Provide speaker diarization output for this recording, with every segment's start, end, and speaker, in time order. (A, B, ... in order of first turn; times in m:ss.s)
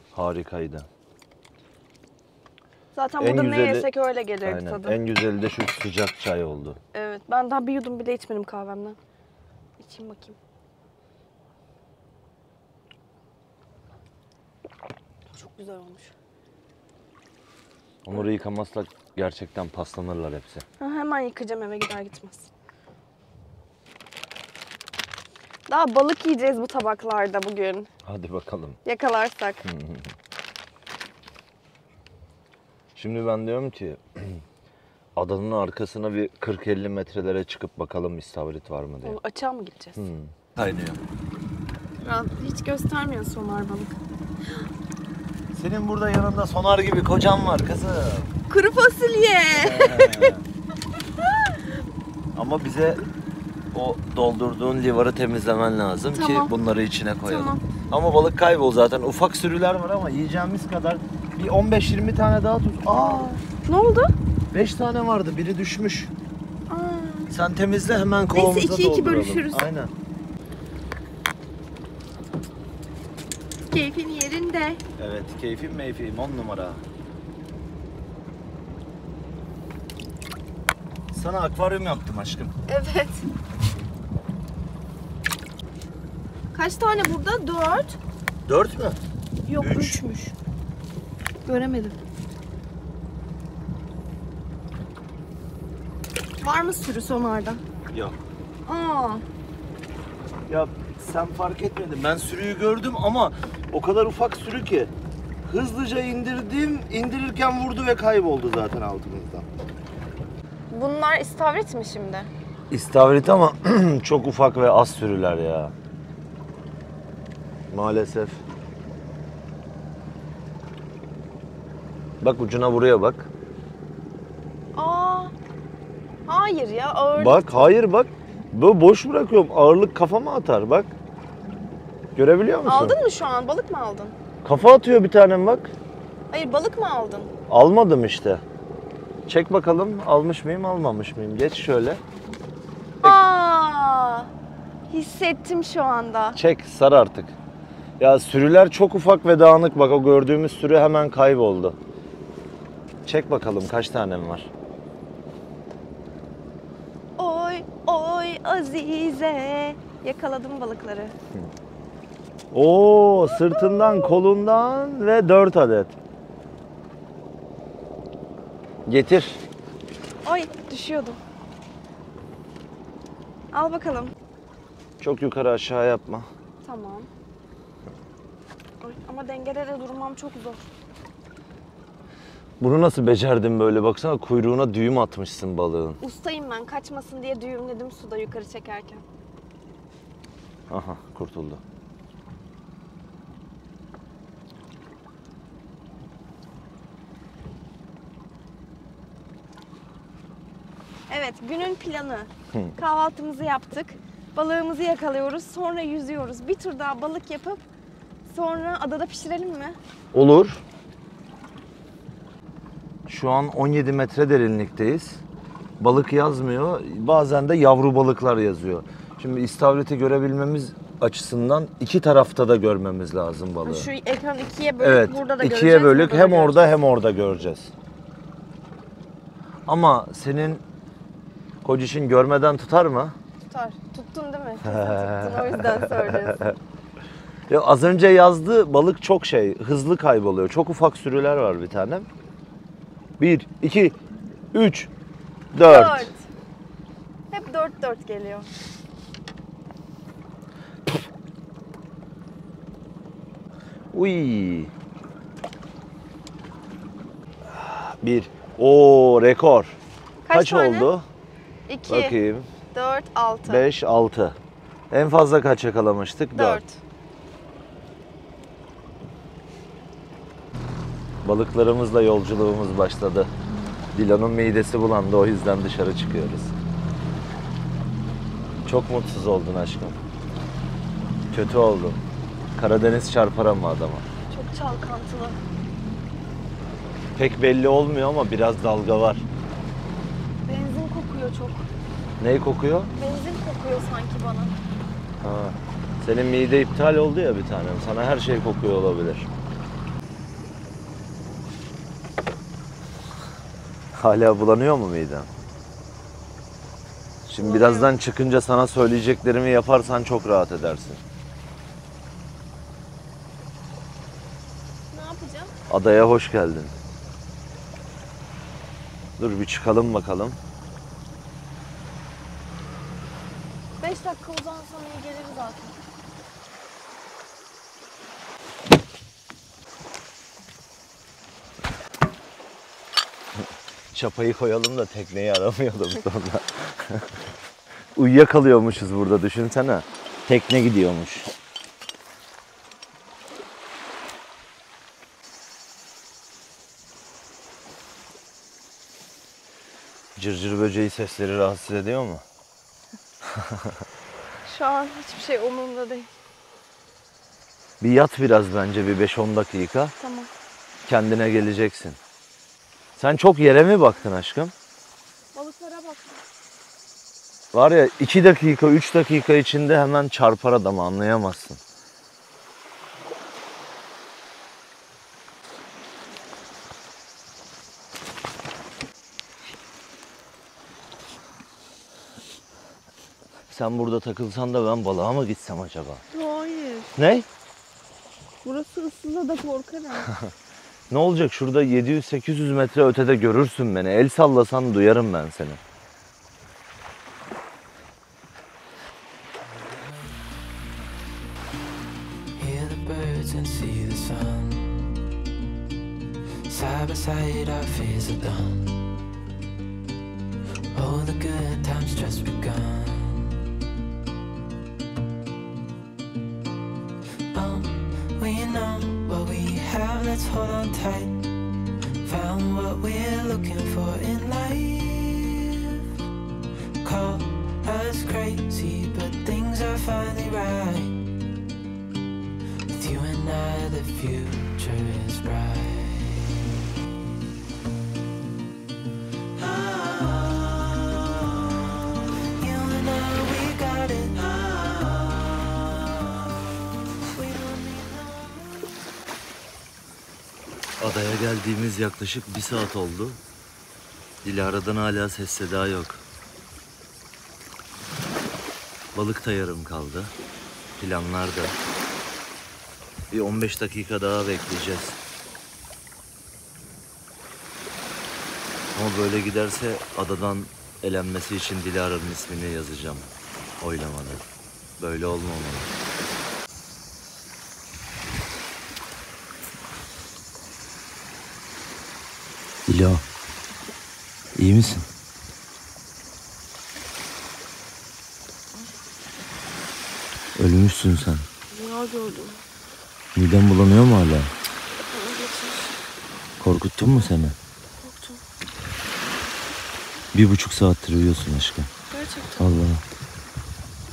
0:00.1-0:00.9 A
0:02.9-0:05.0 B
0:03.2-0:03.9 A
0:04.4-0:06.8 A
0:06.9-0:09.0 B
0:09.8-0:10.4 B
0:15.3-0:16.1 B
0:18.0-0:20.6 A
0:20.8-0:22.5 B
0:25.7-0:27.9 B
0:28.0-0:28.8 A
0:28.8-0:29.7 B
0:29.6-0:30.1 A
0:33.0-0:34.4 A
0:35.1-0:39.2 A
0:39.0-0:40.0 B
0:40.0-0:41.0 A
0:42.0-0:44.0 B
0:45.5-0:48.3 A
0:48.5-0:50.4 B
0:49.5-0:50.4 A
0:52.3-0:53.0 A
0:53.7-1:03.4 A
0:56.1-0:56.5 B
0:57.2-0:57.6 B
1:03.6-1:04.1 B
1:04.5-1:06.1 A
1:06.7-1:07.3 B
1:07.3-1:09.9 A
1:08.3-1:09.7 B
1:13.7-1:14.8 B
1:15.0-1:16.8 A
1:21.1-1:22.5 A
1:22.7-1:23.2 B
1:26.5-1:28.0 B
1:28.4-1:29.0 A
1:29.4-1:30.3 B
1:29.6-1:30.0 A
1:31.4-1:32.0 B
1:36.4-1:37.6 B
1:37.9-1:38.2 A
1:38.6-1:39.2 B
1:40.5-1:44.9 A
1:45.4-1:49.5 A
1:50.7-1:52.3 B
1:52.7-1:55.7 A
1:57.7-1:58.4 A
2:02.2-2:03.3 A
2:04.7-2:05.3 B
2:06.3-2:07.7 B
2:07.2-2:10.9 A
2:12.2-2:13.0 A
2:12.6-2:14.1 B
2:14.4-2:15.7 A
2:16.3-2:17.3 B
2:17.5-2:18.4 A
2:19.3-2:22.0 A
2:23.0-2:24.3 B
2:24.9-2:26.4 B
2:26.3-2:27.3 A
2:28.0-2:31.8 A
2:33.0-2:34.5 A
2:37.2-2:41.1 B
2:42.5-2:45.9 A
2:43.3-2:44.2 B
2:48.8-2:49.4 A
2:50.2-2:51.2 B
2:53.5-2:54.1 B
2:55.0-2:56.3 A
2:56.6-2:57.1 B
2:58.8-3:00.7 B
3:02.6-3:06.0 A
3:06.0-3:09.0 B
3:10.7-3:11.6 A
3:21.1-3:27.6 B
3:28.2-3:29.8 B
3:30.1-3:30.6 A
3:33.1-3:35.2 A
3:35.8-3:43.9 A
3:43.6-3:46.7 B
3:44.8-3:47.7 A
3:49.7-3:50.6 A
3:51.6-3:53.1 A
3:53.4-3:56.5 B
3:54.6-3:56.5 A
3:57.5-4:02.1 A
4:03.2-4:04.0 A
4:04.5-4:04.9 A
4:05.5-4:06.1 A
4:05.6-4:06.2 B
4:07.3-4:08.5 B
4:13.9-4:14.7 A
4:17.4-4:19.8 A
4:20.2-4:20.9 B
4:20.3-4:21.1 A
4:21.7-4:22.2 B
4:21.9-4:22.5 A
4:22.7-4:23.6 B
4:23.5-4:24.4 A
4:24.9-4:26.6 A
4:26.3-4:26.8 B
4:31.2-4:33.3 A
4:33.9-4:36.5 A
4:38.6-4:40.0 A
4:41.3-4:42.0 A
4:42.5-4:44.1 A
4:44.3-4:45.4 B
4:47.2-4:49.2 A
4:50.4-4:51.7 B
4:52.2-4:52.9 A
4:52.9-4:54.6 B
4:55.2-4:59.3 A
5:03.9-5:05.3 A
5:07.3-5:07.9 B
5:07.3-5:11.0 A
5:14.9-5:15.5 B
5:15.7-5:16.8 A
5:19.2-5:20.4 A
5:23.8-5:25.8 B
5:33.9-5:37.1 A
5:37.9-5:41.3 A
5:50.2-5:52.2 A
5:53.2-5:53.8 A
5:54.4-5:56.1 B
5:57.8-5:59.9 A
6:00.0-6:00.3 B
6:00.8-6:02.0 A
6:03.0-6:04.5 A
6:05.3-6:06.2 B
6:07.5-6:11.6 A
6:23.5-6:26.0 A
6:26.1-6:26.9 B
6:27.0-6:27.3 A
6:28.4-6:30.1 B
6:30.9-6:35.6 A
6:39.4-6:40.2 C
6:42.4-6:44.9 C
6:46.4-6:48.7 C
6:50.7-6:53.4 C
6:57.3-7:01.2 C
7:02.0-7:05.9 C
7:06.8-7:11.0 C
7:12.7-7:16.5 C
7:19.4-7:28.7 C
7:30.8-7:33.2 A
7:34.2-7:36.0 A
7:38.9-7:40.1 A
7:40.8-7:41.6 A
7:43.1-7:45.0 A
7:48.7-7:53.1 A
7:53.6-7:54.2 A
7:54.8-7:55.7 A
8:02.7-8:03.0 A
8:04.4-8:04.8 A
8:10.4-8:11.3 A
8:11.5-8:12.4 B
8:13.1-8:14.3 A
8:14.9-8:15.7 B
8:16.4-8:17.4 A
8:17.8-8:18.2 B
8:20.1-8:21.7 A
8:21.9-8:22.5 B
8:22.4-8:22.8 A